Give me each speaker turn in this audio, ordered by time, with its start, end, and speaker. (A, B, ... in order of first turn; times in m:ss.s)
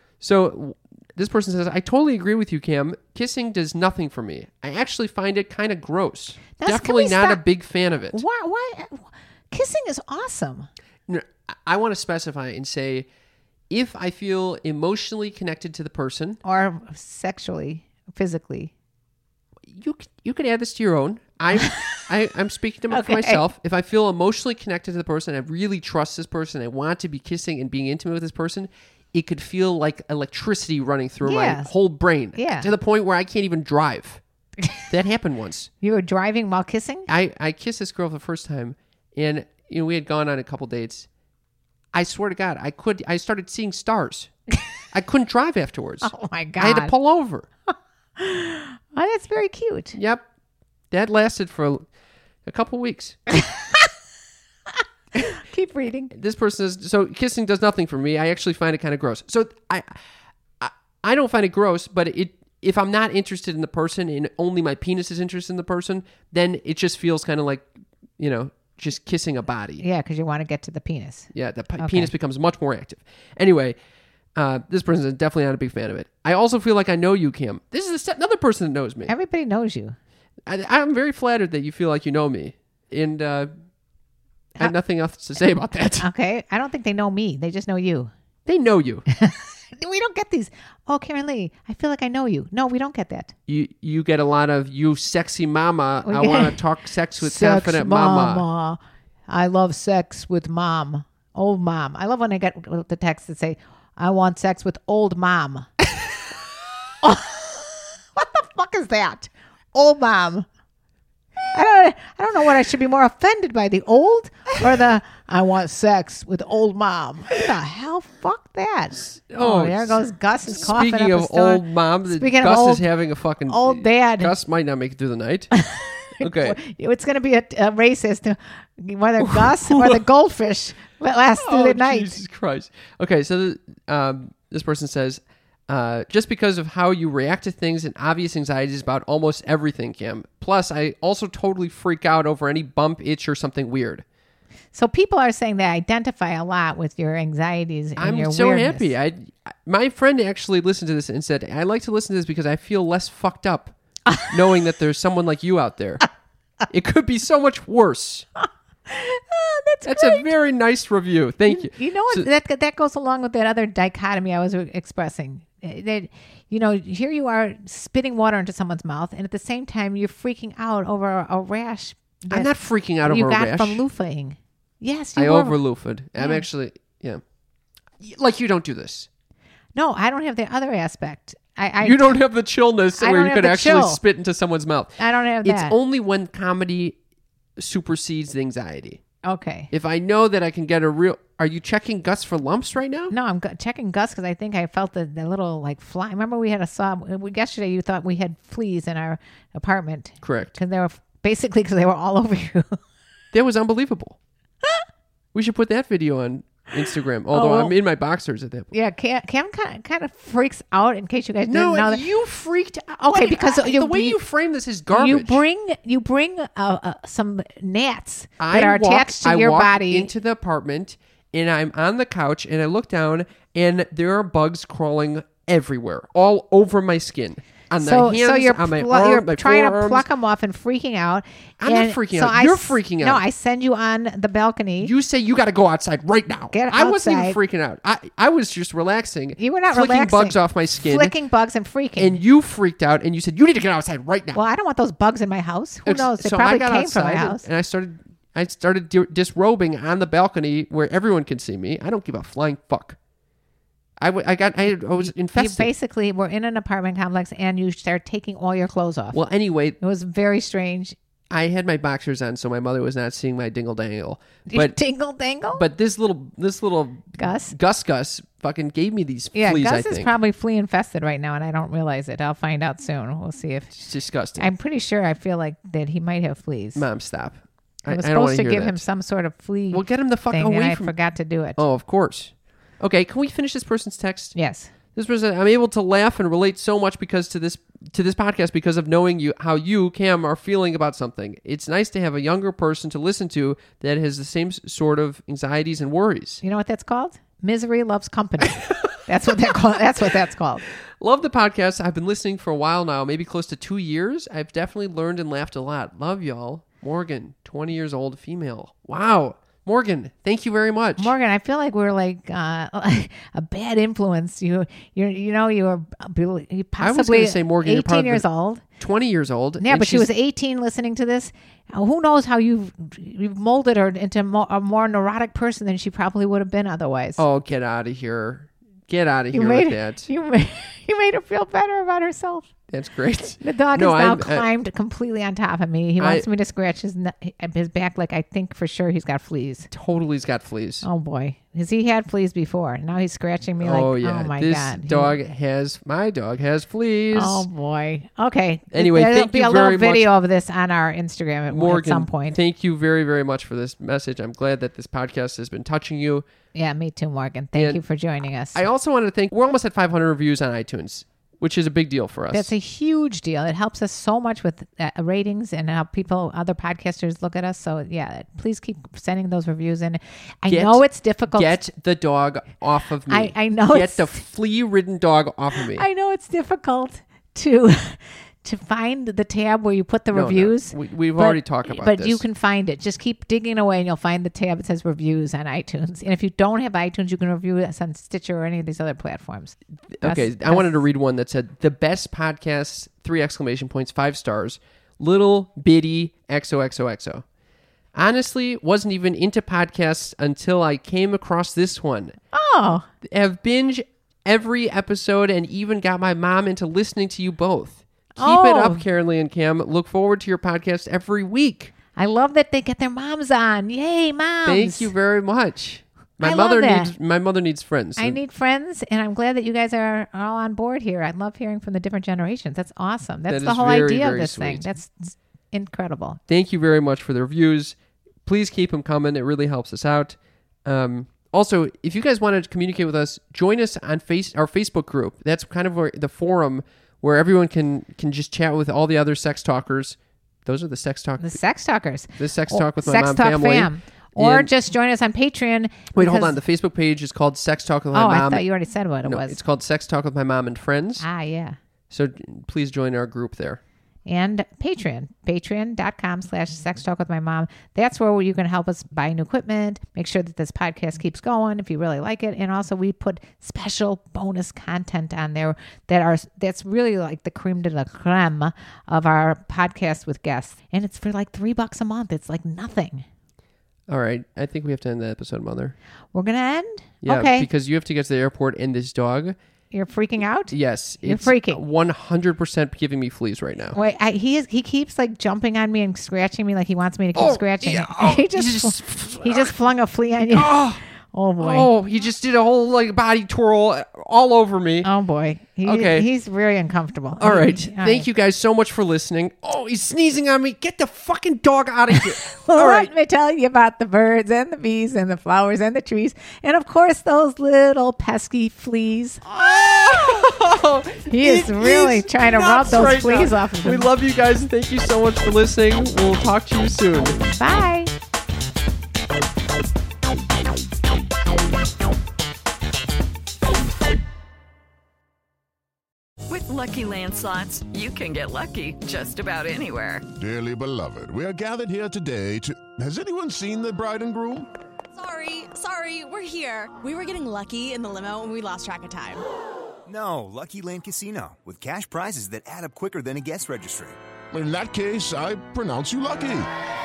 0:00.2-0:08.2 A
0:06.6-0:07.4 B
0:08.1-0:10.7 B
0:11.1-0:13.1 A
0:13.7-0:16.4 A
0:16.4-0:18.7 B
0:19.7-0:34.2 A
0:21.6-0:22.0 B
0:22.9-0:23.4 B
0:31.2-0:31.7 B
0:32.3-0:32.7 B
0:34.9-0:35.7 A
0:35.8-0:37.1 B
0:37.1-0:41.1 A
0:41.9-0:44.3 A
0:44.9-0:47.5 A
0:46.0-0:46.9 B
0:47.7-0:50.0 B
0:49.9-0:50.2 A
0:50.9-0:51.8 A
0:52.4-0:53.2 A
0:53.4-0:53.9 B
0:55.2-0:56.1 B
0:56.1-1:00.0 A
1:00.6-1:09.8 A
1:09.8-1:12.1 B
1:11.3-1:13.8 A
1:14.3-1:19.1 A
1:19.1-1:20.0 B
1:20.4-1:23.5 A
1:24.6-1:26.1 A
1:26.0-1:28.1 B
1:28.4-1:29.0 A
1:29.1-1:33.3 B
1:33.5-1:38.4 A
1:36.0-1:36.6 B
1:37.2-1:45.7 B
1:47.0-1:50.5 B
1:51.5-2:02.8 B
1:59.3-2:05.5 A
2:03.5-2:04.3 B
2:05.5-2:12.2 B
2:06.2-2:06.6 A
2:09.2-2:10.0 A
2:11.4-2:24.0 A
2:24.7-2:28.9 B
2:28.0-2:33.7 A
2:34.1-2:34.3 B
2:34.3-2:36.0 A
2:36.7-2:38.2 A
2:38.4-2:40.3 B
2:39.8-2:42.3 A
2:41.5-2:52.5 B
2:52.3-2:53.8 A
2:53.0-2:55.6 B
2:55.2-2:57.2 A
2:56.2-2:56.4 B
2:58.0-2:59.1 A
2:59.8-3:02.2 B
3:01.8-3:07.0 A
3:03.0-3:04.0 B
3:05.0-3:05.8 B
3:07.6-3:09.0 A
3:09.2-3:09.7 B
3:09.7-3:13.1 A
3:13.1-3:22.8 B
3:20.2-3:20.6 A
3:23.3-3:24.2 A
3:25.3-3:28.7 A
3:27.3-3:27.7 B
3:28.7-3:32.1 B
3:31.4-3:35.4 A
3:33.0-3:34.2 B
3:34.9-3:40.1 B
3:38.4-3:50.0 A
3:47.8-3:54.9 B
3:51.6-3:53.2 A
3:54.8-4:01.1 A
3:56.5-3:57.4 B
3:59.4-4:02.2 B
4:02.0-4:04.4 A
4:04.3-4:07.4 B
4:05.8-4:13.0 A
4:14.0-4:15.7 A
4:15.0-4:19.2 B
4:19.1-4:19.8 A
4:19.8-4:20.9 B
4:21.3-4:24.8 A
4:24.5-4:25.6 B
4:25.5-4:30.1 A
4:27.2-4:27.5 B
4:29.3-4:33.7 B
4:33.7-4:34.5 A
4:34.4-4:36.8 B
4:36.7-4:38.8 A
4:37.9-4:41.6 B
4:39.7-4:40.9 A
4:41.6-4:44.3 A
4:44.3-4:44.7 B
4:44.9-4:56.4 A
4:56.4-5:00.6 B
5:01.0-5:11.1 A
5:11.0-5:18.6 B
5:16.8-5:18.2 A
5:18.8-5:20.1 A
5:19.6-5:27.2 B
5:27.2-5:30.1 A
5:29.3-5:32.5 B
5:32.7-5:34.5 A
5:33.4-5:39.7 B
5:36.0-5:36.2 A
5:39.7-5:40.8 A
5:40.8-5:45.2 B
5:43.6-5:47.5 A
5:47.1-5:52.4 B
5:48.7-5:50.1 A
5:51.5-5:56.2 A
5:56.5-5:58.6 B
5:57.5-5:57.8 A
5:58.5-6:02.5 A
6:02.3-6:11.6 B
6:10.5-6:15.9 A
6:13.1-6:14.2 B
6:15.7-6:30.7 B
6:20.1-6:22.2 A
6:29.9-6:37.2 A
6:37.9-6:42.2 A
6:42.3-6:42.9 B
6:43.0-6:51.7 A
6:48.2-6:48.8 B
6:51.9-6:54.9 B
6:54.4-6:58.2 A
6:56.2-6:56.9 B
6:58.0-7:06.2 B
7:03.3-7:04.7 A
7:06.3-7:21.4 A
7:21.2-7:26.4 B
7:22.2-7:24.5 A
7:25.9-7:28.4 A
7:27.9-7:29.4 B
7:29.0-7:31.0 A
7:31.0-7:31.6 B
7:31.9-7:33.6 A
7:34.0-7:53.0 B
7:53.9-7:55.8 A
7:56.1-7:57.5 B
7:57.0-7:59.4 A
7:59.7-8:01.6 B
8:00.5-8:03.8 A
8:03.7-8:11.7 B
8:07.1-8:09.5 A
8:10.3-8:10.8 A
8:11.4-8:14.9 A
8:14.8-8:18.1 B
8:15.6-8:16.1 A
8:17.2-8:22.9 A
8:21.9-8:29.2 B
8:29.2-8:37.2 A
8:31.1-8:33.9 B
8:37.3-8:37.9 B
8:46.3-8:50.1 C
8:50.2-8:54.5 D
8:54.9-8:59.2 E
8:59.8-9:04.0 F
9:04.3-9:06.5 D